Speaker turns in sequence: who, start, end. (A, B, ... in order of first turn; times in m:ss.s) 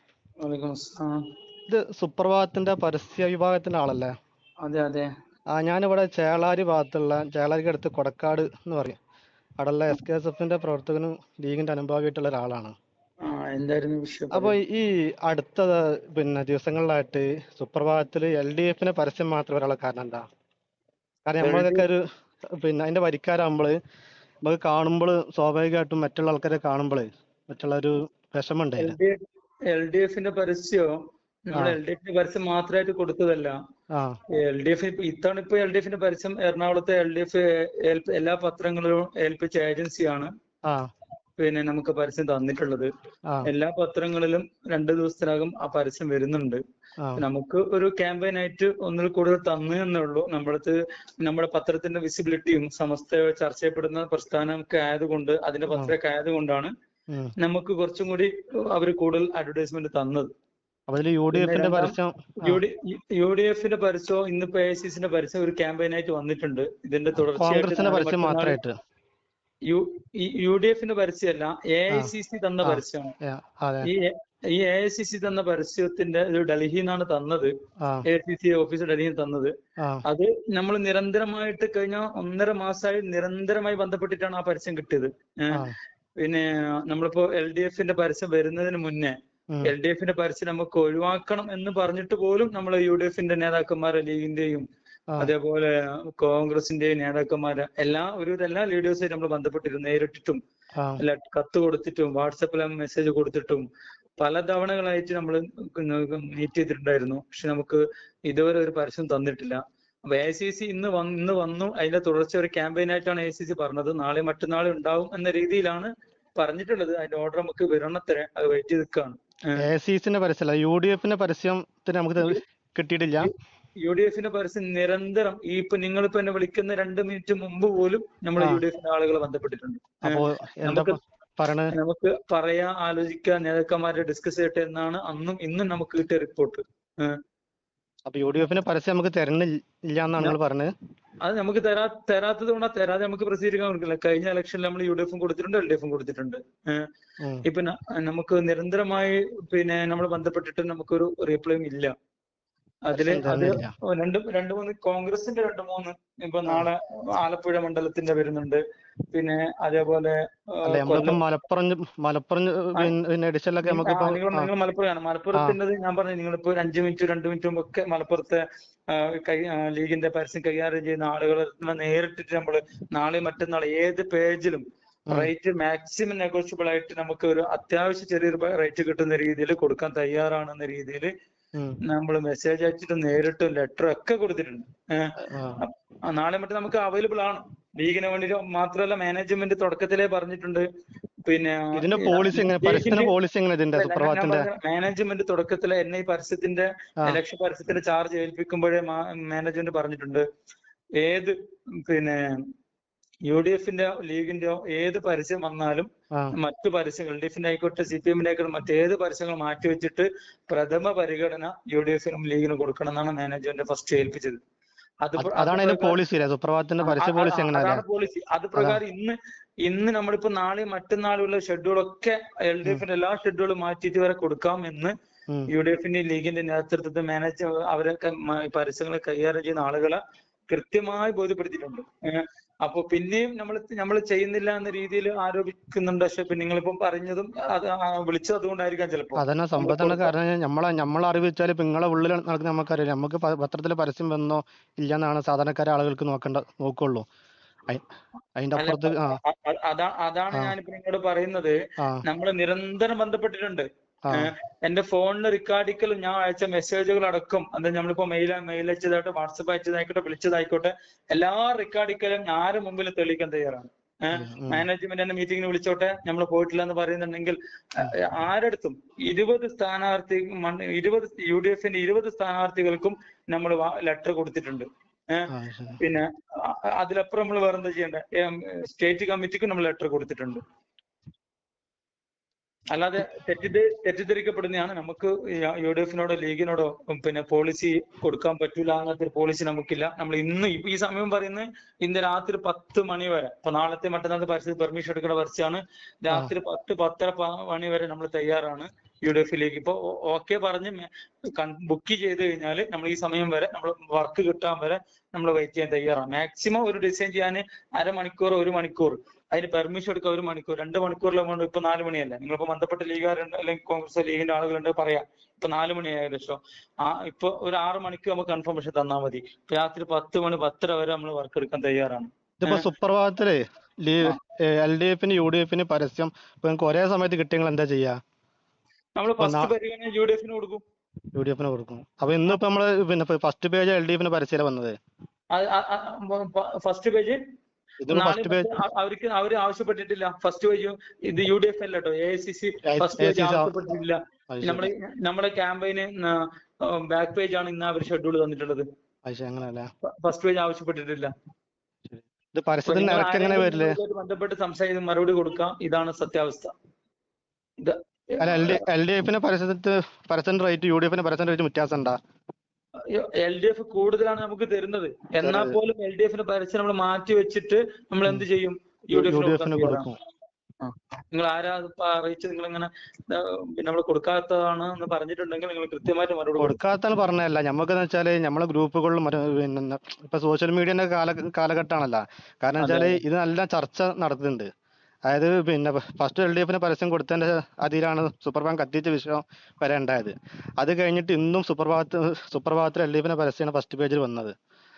0:00.4-0:01.2 A
0:01.7-0:04.1 B
0:04.6-0:05.1 A
0:05.5-0:09.0 B
0:09.6-0:12.8 B
0:13.2-0:14.6 A
0:14.3-0:20.2 B
0:21.2-0:22.0 B
0:21.4-0:21.8 A
0:22.6-0:23.8 B
0:24.4-0:29.0 B
0:28.8-0:29.2 A
0:29.7-0:30.9 A
0:31.5-0:33.6 A
0:34.3-0:40.3 A
0:41.4-0:42.9 A
0:43.4-0:46.6 A
0:47.2-0:56.7 A
0:57.4-1:00.3 A
1:00.9-1:02.6 B
1:01.3-1:08.6 A
1:07.3-1:08.7 B
1:09.7-1:13.1 A
1:12.6-1:13.9 B
1:13.8-1:17.5 A
1:18.0-1:19.5 A
1:20.0-1:25.6 A
1:26.2-1:34.6 A
1:35.2-1:40.4 A
1:41.0-1:43.6 A
1:44.2-1:59.6 A
1:59.6-2:03.3 B
2:03.2-2:11.0 A
2:08.4-2:08.6 B
2:10.0-2:11.7 B
2:11.7-2:17.1 A
2:18.1-2:20.7 B
2:21.2-2:26.8 A
2:27.4-2:31.9 A
2:32.9-2:38.6 A
2:32.9-2:33.7 B
2:39.1-2:41.2 A
2:40.7-2:44.5 B
2:43.6-3:01.1 A
3:01.9-3:10.6 A
3:05.3-3:05.6 B
3:11.2-3:13.1 A
3:11.7-3:14.5 B
3:13.7-3:20.2 A
3:21.0-3:21.3 A
3:21.8-3:22.2 A
3:23.3-3:34.4 A
3:35.0-3:36.0 A
3:35.2-3:37.8 B
3:36.8-3:44.9 A
3:38.5-3:38.8 B
3:45.5-3:50.0 A
3:50.5-4:00.1 A
3:59.2-4:07.0 B
4:08.4-4:09.2 B
4:08.6-4:35.3 A
4:24.1-4:24.7 B
4:35.3-4:35.8 B
4:35.8-4:40.4 A
4:42.7-5:22.7 A
5:22.4-5:28.0 B
5:29.0-5:30.6 A
5:29.2-5:29.5 B
5:31.1-5:34.8 B
5:35.3-5:37.2 A
5:37.8-5:38.6 B
5:37.9-5:48.6 A
5:42.6-5:43.5 B
5:44.3-5:44.7 B
5:49.0-5:49.7 B
5:49.8-5:51.1 A
5:51.9-5:53.8 B
5:52.7-5:56.5 A
5:57.6-5:58.6 A
5:58.2-6:02.0 B
6:02.9-6:09.8 A
6:05.2-6:05.6 B
6:08.9-6:09.9 B
6:10.6-6:16.6 A
6:16.4-6:24.5 B
6:22.6-6:23.0 A
6:25.1-6:34.3 B